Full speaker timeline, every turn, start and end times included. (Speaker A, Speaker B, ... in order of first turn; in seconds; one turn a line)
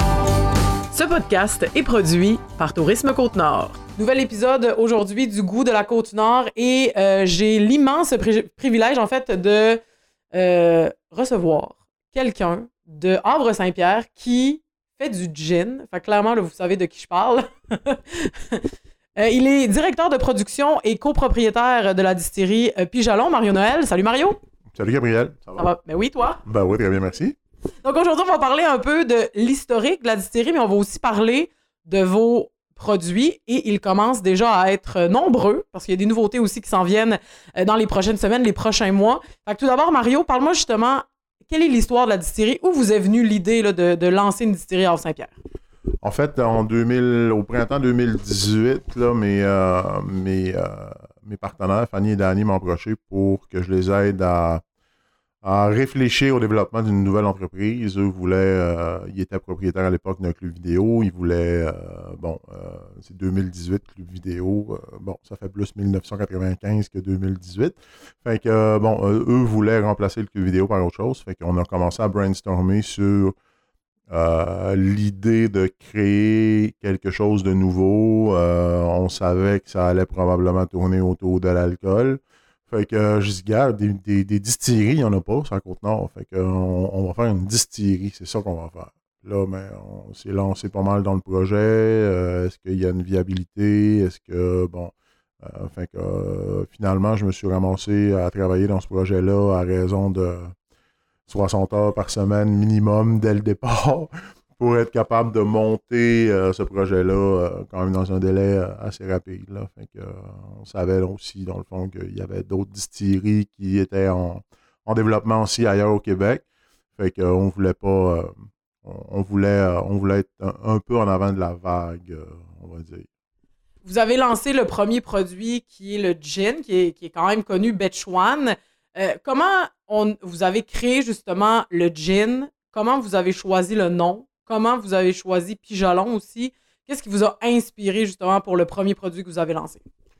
Speaker A: 0.9-9.8
Speaker A: 10.3-24.4
Speaker B: 24.7-25.7
Speaker A: 25.6-26.4
Speaker B: 26.4-27.4
Speaker A: 27.8-45.3
Speaker B: 46.0-54.6
Speaker B: 55.4-73.3
Speaker B: 74.1-100.5
Speaker B: 101.3-116.4
Speaker B: 117.0-123.1
Speaker A: 123.8-139.8